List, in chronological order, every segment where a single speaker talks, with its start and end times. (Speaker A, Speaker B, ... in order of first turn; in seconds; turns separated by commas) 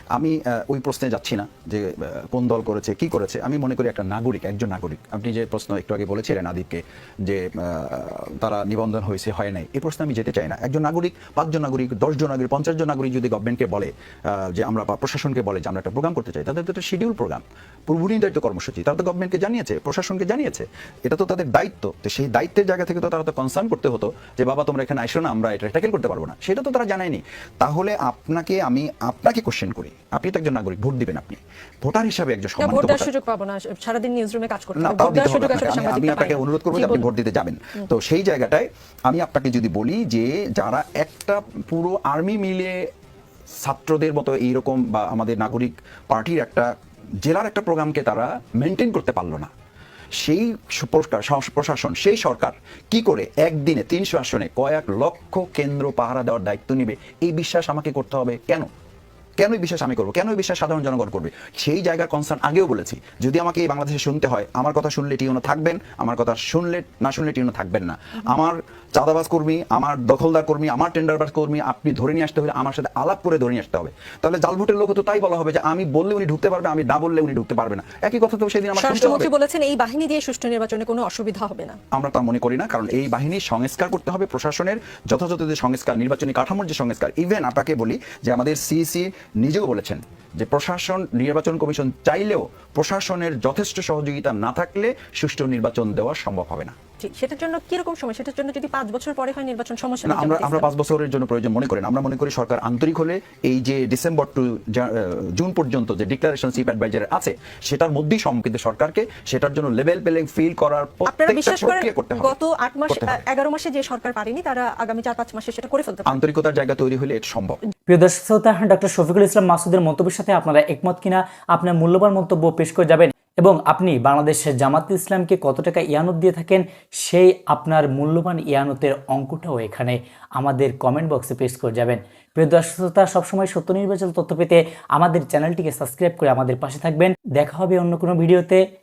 Speaker A: 0.1-33.1, Speaker B: 32.6-37.1, Speaker A: 34.8-42.9, Speaker A: 43.5-46.7, Speaker A: 47.2-49.5, Speaker A: 50.2-58.7, Speaker A: 59.4-79.3, Speaker B: 78.8-81.8, Speaker A: 81.9-96.8, Speaker B: 97.0-100.7, Speaker A: 100.0-112.3, Speaker B: 111.0-116.2, Speaker A: 112.9-113.2, Speaker A: 116.1-117.6, Speaker C: 117.9-138.6